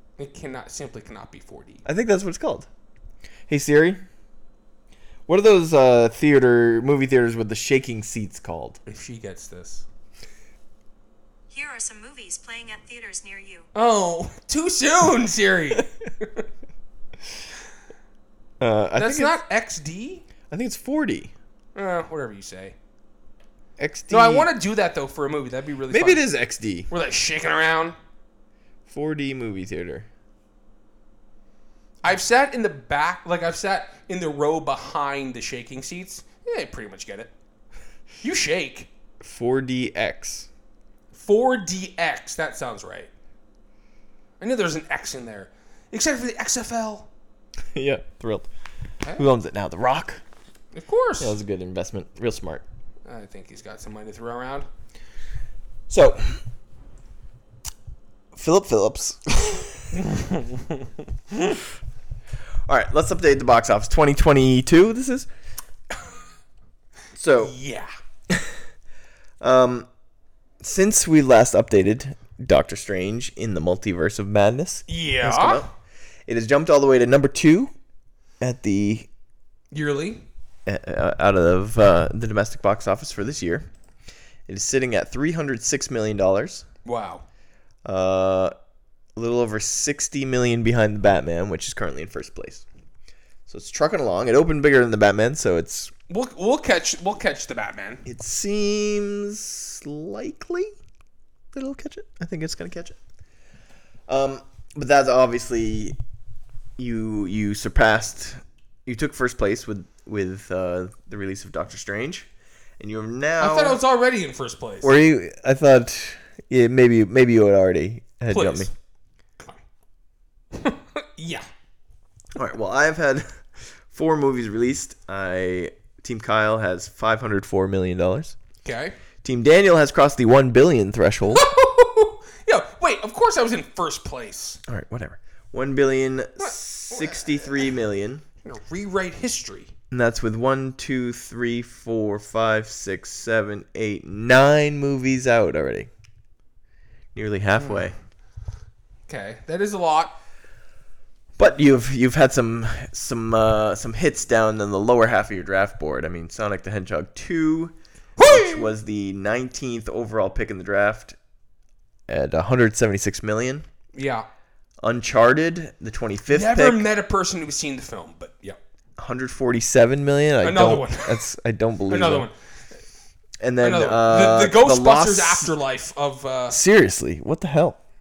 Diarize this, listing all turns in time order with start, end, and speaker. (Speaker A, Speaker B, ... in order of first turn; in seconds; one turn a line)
Speaker A: 0.2-1.8
Speaker B: 1.9-2.7
Speaker B: 3.5-4.0
Speaker B: 5.3-8.8
Speaker A: 8.9-9.8
Speaker C: 11.5-13.7
Speaker A: 13.8-16.4
Speaker B: 18.6-19.4
Speaker A: 19.0-20.3
Speaker B: 20.5-21.3
Speaker A: 21.8-22.8
Speaker B: 23.8-24.5
Speaker A: 24.1-26.3
Speaker B: 25.9-26.9
Speaker A: 26.9-28.0
Speaker B: 28.9-30.1
Speaker A: 32.0-37.3
Speaker A: 38.2-38.9
Speaker B: 39.2-40.5
Speaker A: 41.1-43.1
Speaker A: 44.4-47.1
Speaker B: 47.8-48.5
Speaker B: 49.2-50.2
Speaker A: 50.7-51.4
Speaker B: 51.2-52.6
Speaker A: 53.1-54.7
Speaker B: 55.9-56.4
Speaker B: 58.3-60.0
Speaker A: 60.0-60.8
Speaker B: 62.7-65.3
Speaker B: 67.2-67.6
Speaker A: 67.4-67.9
Speaker B: 69.4-69.9
Speaker B: 70.6-75.7
Speaker A: 74.9-75.7
Speaker B: 76.3-77.7
Speaker B: 78.4-79.1
Speaker A: 79.7-80.3
Speaker B: 80.7-83.7
Speaker B: 84.5-86.7
Speaker A: 86.8-87.2
Speaker B: 87.8-88.5
Speaker B: 89.2-92.7
Speaker B: 93.5-95.9
Speaker A: 96.1-98.0
Speaker B: 98.0-100.7
Speaker B: 101.5-103.0
Speaker B: 104.1-106.0
Speaker B: 106.8-112.3
Speaker B: 112.8-113.8
Speaker A: 113.4-114.9
Speaker B: 114.8-118.7
Speaker A: 118.3-118.7
Speaker A: 120.5-121.5
Speaker B: 122.3-128.4
Speaker A: 128.6-129.0
Speaker B: 129.2-131.5
Speaker A: 131.3-134.6
Speaker B: 134.7-138.2
Speaker A: 136.4-137.7
Speaker A: 138.4-139.7
Speaker B: 139.9-145.9
Speaker B: 147.1-147.9
Speaker A: 147.6-147.9
Speaker A: 149.1-150.2
Speaker B: 151.4-161.2
Speaker A: 158.2-158.7
Speaker B: 162.1-163.7
Speaker A: 163.9-164.3
Speaker B: 164.8-166.9
Speaker A: 166.3-168.6
Speaker B: 169.0-172.3
Speaker A: 170.4-171.2
Speaker A: 171.9-172.3
Speaker B: 173.4-175.5
Speaker A: 173.6-176.6
Speaker B: 176.5-177.8